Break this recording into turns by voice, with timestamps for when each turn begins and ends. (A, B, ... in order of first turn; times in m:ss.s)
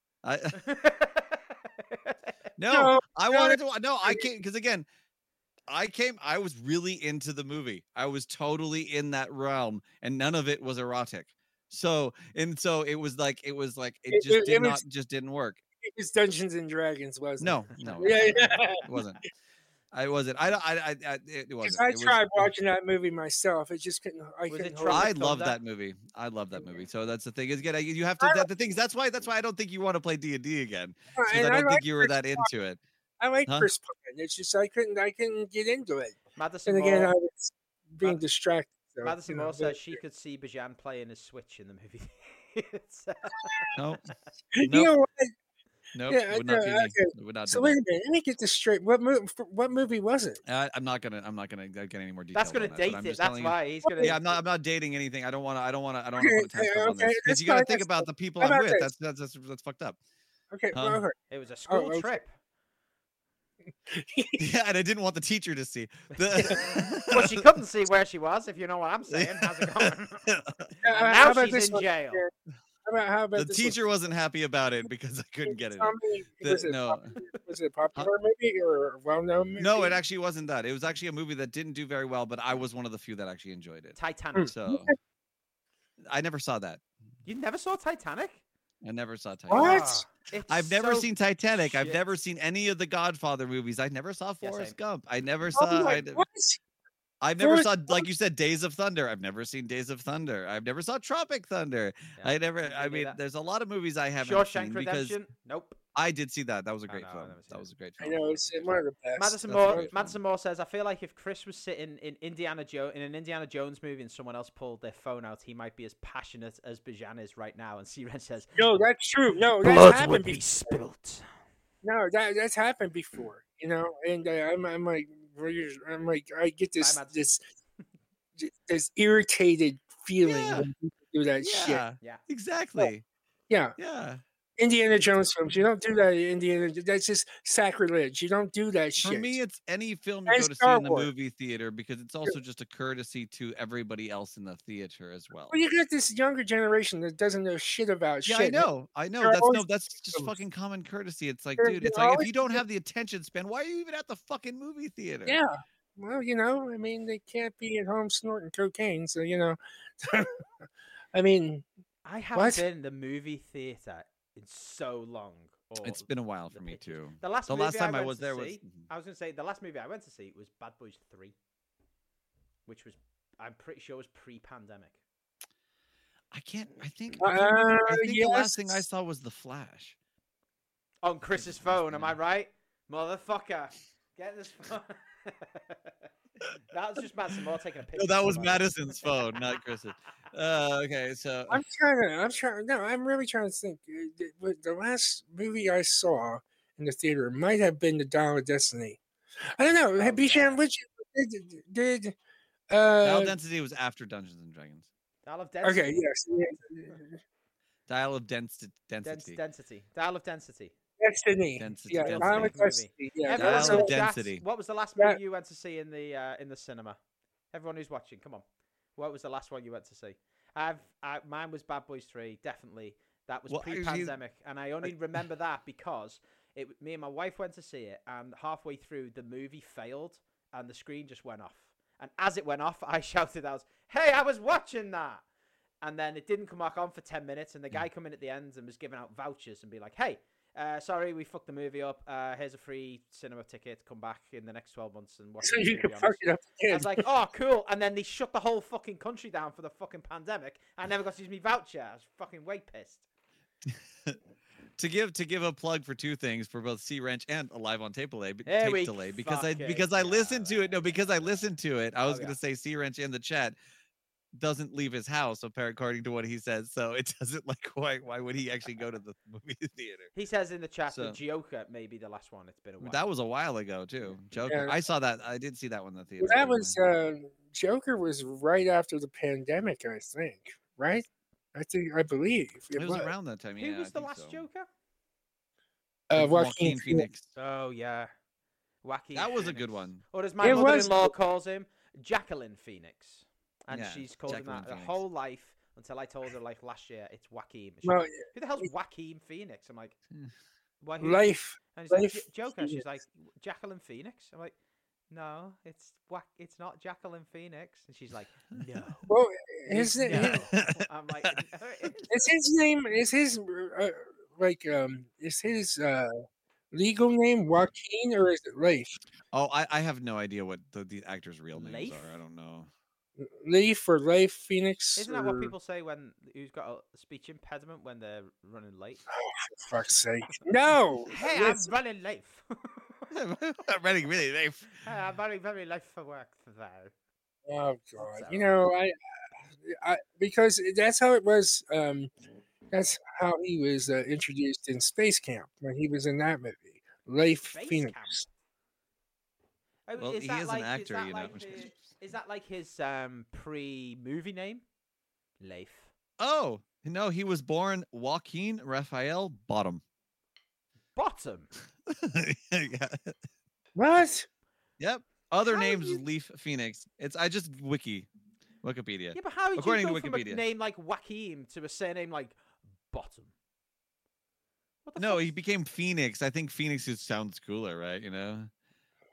0:00.2-0:00.6 A
0:00.6-0:02.1 B
0:02.6-0:04.8 A
0:02.7-0:04.2 C
0:05.7-0:15.6 A
0:14.1-0:14.8 C
0:15.8-0:18.8 C
0:17.4-0:19.2 A
0:17.8-0:18.6 B
0:19.9-0:22.5 A
0:21.6-0:25.1 C
0:24.5-0:25.6 B
0:24.9-0:32.8 A
0:28.2-0:28.4 C
0:31.1-0:32.5 C
0:33.2-0:40.0 C
0:36.4-0:37.1 B
0:39.0-0:43.7 B
0:43.4-0:43.7 C
0:43.8-0:44.0 A
0:44.5-0:45.3 C
0:44.6-0:44.9 A
0:45.9-0:47.8 A
0:46.1-0:50.4 C
0:50.4-1:00.0 A
0:52.3-0:54.2 B
0:56.2-0:58.9 C
1:00.5-1:01.2 C
1:00.7-1:01.0 A
1:01.3-1:02.3 B
1:01.7-1:02.2 C
1:03.9-1:04.4 C
1:04.4-1:07.5 A
1:06.4-1:10.3 B
1:09.1-1:10.7 A
1:10.8-1:12.2 B
1:10.8-1:12.3 C
1:12.8-1:13.8 C
1:13.4-1:17.1 A
1:15.4-1:20.0 C
1:19.6-1:24.0 A
1:24.0-1:24.5 B
1:24.4-1:25.0 C
1:24.5-1:24.9 A
1:26.1-1:26.8 A
1:27.2-1:28.4 B
1:28.8-1:29.9 A
1:29.5-1:30.0 C
1:29.5-1:32.0 B
1:30.5-1:36.2 A
1:34.4-1:34.7 B
1:35.5-1:36.6 C
1:37.2-1:45.2 A
1:37.4-1:38.1 C
1:42.2-1:43.2 B
1:44.2-1:45.8 B
1:45.9-1:48.8 A
1:46.9-1:47.6 B
1:48.0-1:49.9 C
1:49.2-1:58.8 B
1:49.5-1:50.2 A
1:58.6-2:00.8 C
1:59.6-2:01.2 B
2:01.8-2:07.4 C
2:06.8-2:07.3 B
2:08.4-2:11.8 C
2:10.2-2:10.7 A
2:11.4-2:13.0 A
2:13.5-2:13.7 C
2:13.8-2:14.2 A
2:14.6-2:19.3 C
2:19.0-2:25.6 A
2:20.3-2:21.1 C
2:25.5-2:28.7 C
2:28.2-2:35.4 A
2:29.2-2:30.3 C
2:31.6-2:32.6 C
2:35.2-2:40.4 C
2:41.1-2:41.6 C
2:42.0-2:51.3 B
2:42.3-2:42.6 C
2:45.8-2:48.8 A
2:52.6-2:55.0 B
2:56.3-2:59.9 A
2:57.2-2:58.8 C
3:01.0-3:05.9 B
3:01.4-3:02.1 A
3:06.7-3:09.4 B
3:08.0-3:11.6 A
3:11.5-3:19.0 C
3:19.6-3:22.1 C
3:20.0-3:20.6 B
3:22.7-3:23.4 C
3:23.0-3:24.9 A
3:25.2-3:26.0 B
3:25.6-3:27.2 C
3:27.9-3:29.4 A
3:29.0-3:30.7 B
3:31.0-3:33.9 C
3:31.6-3:32.5 A
3:32.0-3:37.0 B
3:33.3-3:34.4 A
3:37.5-3:38.4 B
3:39.0-3:55.2 B
3:43.5-3:44.1 A
3:55.8-4:13.0 B
4:05.4-4:07.0 C
4:14.8-4:23.5 A
4:18.4-4:20.6 B
4:22.0-4:22.4 B
4:24.3-4:30.1 A
4:30.1-4:33.0 B
4:30.9-4:31.2 A
4:32.8-4:36.8 A
4:34.5-4:34.7 C
4:36.2-4:43.1 C
4:42.7-4:44.4 A
4:43.6-4:44.7 B
4:46.1-4:47.1 C
4:46.1-4:47.3 A
4:47.4-4:48.1 B
4:48.8-5:00.0 B
4:49.1-4:50.9 A
4:50.4-4:51.1 C
4:53.7-4:55.0 A
4:57.8-4:58.7 C
5:00.8-5:04.5 B
5:01.0-5:02.8 C
5:05.1-5:09.1 B
5:09.1-5:10.4 C
5:09.7-5:12.1 B
5:10.1-5:11.4 A
5:12.1-5:16.2 C
5:16.7-5:18.9 C
5:19.3-5:22.7 A
5:21.5-5:22.1 B
5:23.2-5:25.5 C
5:25.0-5:29.0 B
5:29.1-5:31.7 C
5:31.1-5:32.9 B
5:33.1-5:34.8 A
5:34.8-5:36.9 B
5:37.4-5:38.9 C
5:38.0-5:38.6 B
5:39.6-5:42.1 C
5:42.7-5:48.2 C
5:47.5-5:48.3 B
5:49.9-5:54.6 B
5:50.0-5:51.8 A
5:55.4-5:55.9 B
5:56.2-5:59.8 A
6:01.0-6:01.5 B
6:01.9-6:03.1 A
6:03.8-6:04.3 C
6:04.8-6:08.1 A
6:05.5-6:06.0 B
6:08.6-6:10.4 A
6:09.1-6:12.4 B
6:12.9-6:13.3 B
6:14.8-6:15.3 B
6:15.0-6:18.5 A